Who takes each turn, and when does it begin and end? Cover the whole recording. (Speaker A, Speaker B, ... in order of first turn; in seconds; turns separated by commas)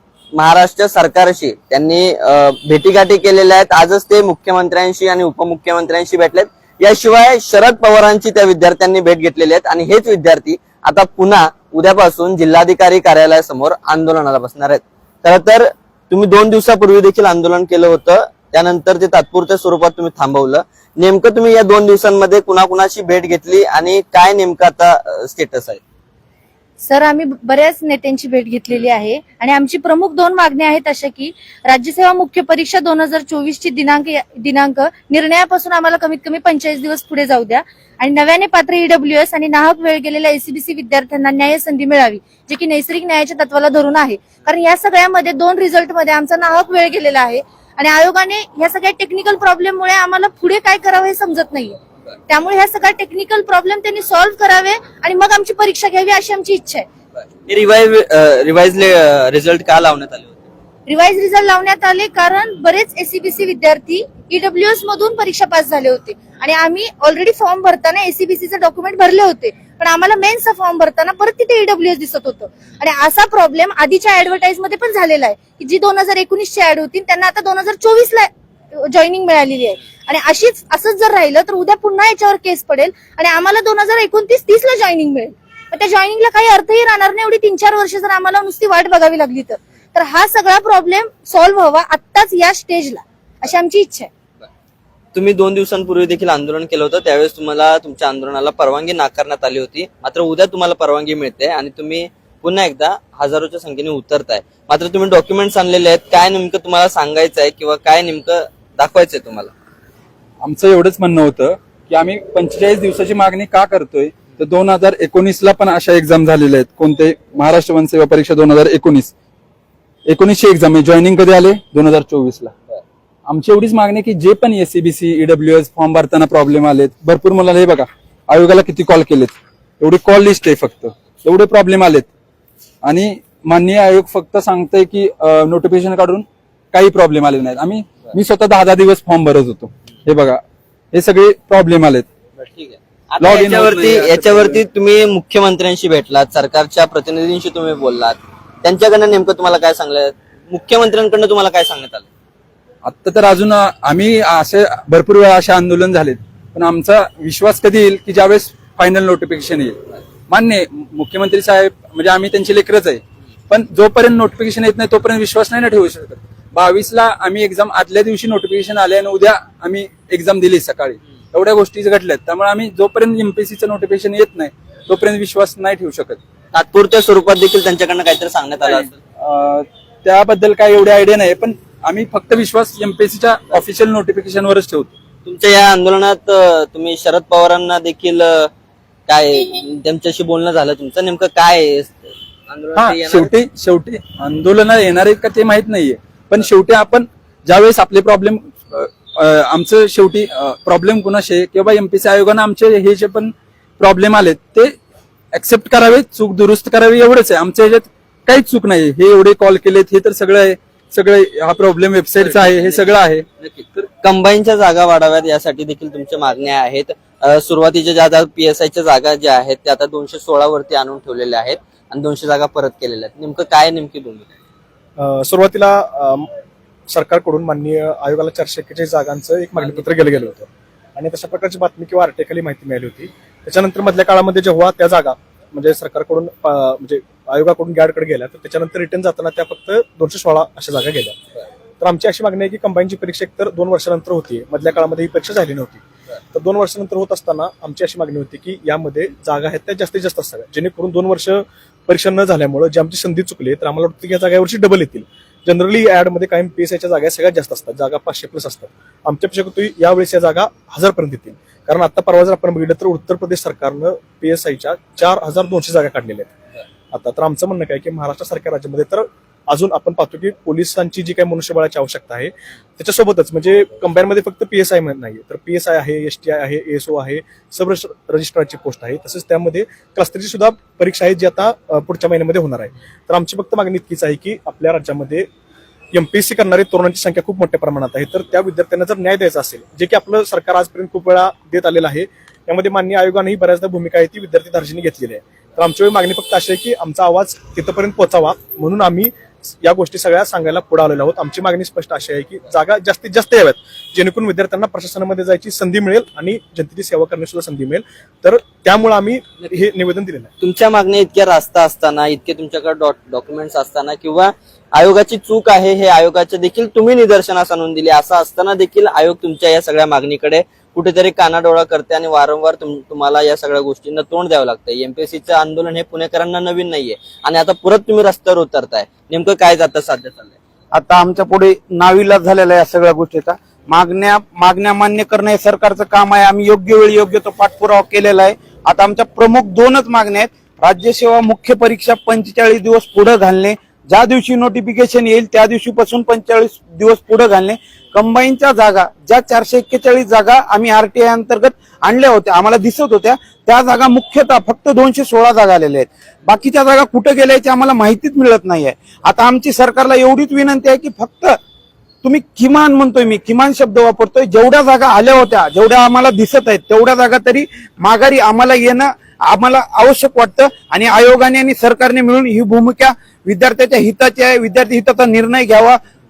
Speaker A: 0.4-25.8, Speaker B: 26.8-56.9, Speaker A: 57.5-60.5, Speaker B: 60.9-94.1, Speaker A: 95.1-109.5, Speaker C: 110.4-119.1, Speaker C: 120.1-122.5, Speaker C: 123.3-132.1, Speaker C: 132.8-140.4, Speaker C: 140.9-142.1, Speaker A: 142.4-152.1, Speaker C: 143.2-144.6, Speaker C: 152.8-176.2, Speaker A: 176.5-179.0, Speaker C: 178.6-184.9, Speaker A: 185.2-188.5, Speaker A: 189.1-193.3, Speaker C: 192.8-204.8, Speaker C: 205.3-213.2, Speaker A: 212.2-224.3, Speaker D: 225.0-226.3, Speaker D: 226.9-241.2, Speaker A: 229.6-230.3, Speaker D: 241.8-266.3, Speaker D: 266.9-285.3, Speaker D: 285.9-310.3, Speaker A: 310.4-330.4, Speaker E: 330.7-361.4, Speaker E: 362.0-375.8